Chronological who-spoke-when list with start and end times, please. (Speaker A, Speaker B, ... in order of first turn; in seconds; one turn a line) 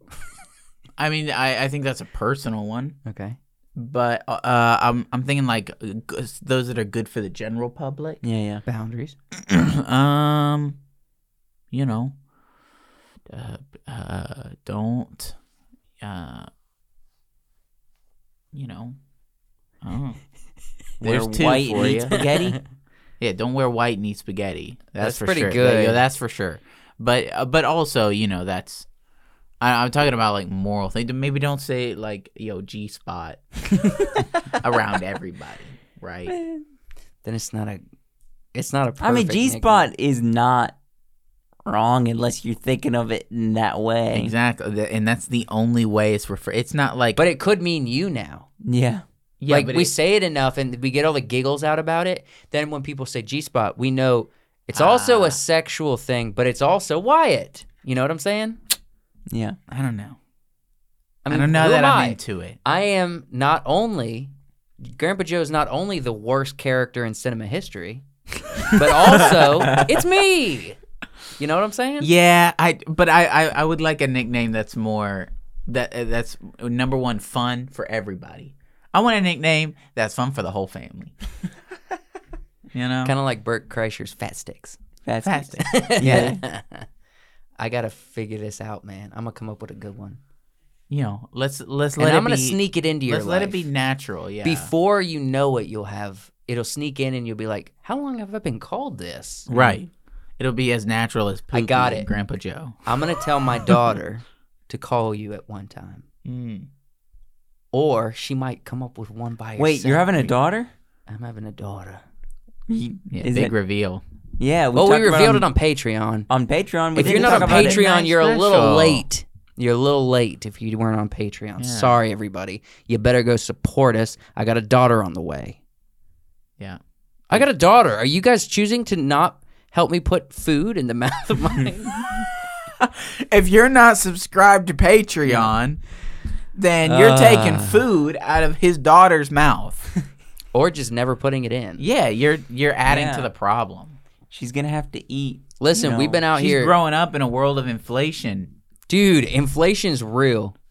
Speaker A: 1.0-3.0
Speaker B: 3.0-3.4
Speaker A: 3.8-8.2
Speaker C: 8.2-8.6
Speaker B: 8.7-9.2
Speaker A: 9.3-10.8
Speaker A: 11.7-12.1
Speaker A: 13.3-15.3
Speaker A: 16.0-16.5
Speaker A: 18.5-18.9
Speaker A: 19.8-20.2
Speaker A: 21.0-22.2
Speaker C: 21.0-22.6
Speaker A: 23.2-28.9
Speaker B: 25.0-26.0
Speaker A: 29.6-33.4
Speaker A: 34.5-36.3
Speaker C: 36.3-36.6
Speaker B: 37.2-37.8
Speaker B: 38.5-39.9
Speaker C: 39.0-40.7
Speaker C: 41.6-44.3
Speaker A: 44.1-47.2
Speaker B: 47.1-48.5
Speaker C: 48.6-49.0
Speaker A: 49.4-49.9
Speaker B: 49.5-58.6
Speaker A: 54.7-55.4
Speaker C: 59.3-59.6
Speaker A: 59.7-60.2
Speaker B: 61.2-68.0
Speaker A: 61.3-62.6
Speaker B: 68.7-70.8
Speaker A: 68.9-70.0
Speaker B: 71.4-72.1
Speaker A: 72.0-81.1
Speaker A: 82.7-83.2
Speaker B: 83.0-84.8
Speaker C: 85.0-86.4
Speaker A: 85.2-86.4
Speaker B: 85.6-86.8
Speaker B: 87.6-90.2
Speaker A: 90.9-94.7
Speaker B: 92.0-93.7
Speaker B: 94.4-99.5
Speaker A: 99.5-103.0
Speaker C: 99.5-99.8
Speaker B: 101.5-102.1
Speaker B: 102.8-106.0
Speaker A: 106.2-106.7
Speaker B: 107.7-110.3
Speaker C: 109.6-110.7
Speaker B: 111.1-112.0
Speaker C: 112.7-113.5
Speaker A: 113.1-114.0
Speaker C: 114.4-115.5
Speaker B: 114.8-116.3
Speaker C: 116.3-117.8
Speaker B: 117.0-125.6
Speaker A: 117.0-119.0
Speaker A: 121.6-122.0
Speaker B: 127.3-132.1
Speaker A: 132.8-135.8
Speaker A: 136.5-139.9
Speaker B: 136.8-137.8
Speaker B: 140.5-141.8
Speaker A: 141.8-144.0
Speaker C: 142.8-143.3
Speaker C: 144.3-146.2
Speaker B: 145.6-146.7
Speaker A: 146.3-148.5
Speaker B: 148.9-150.5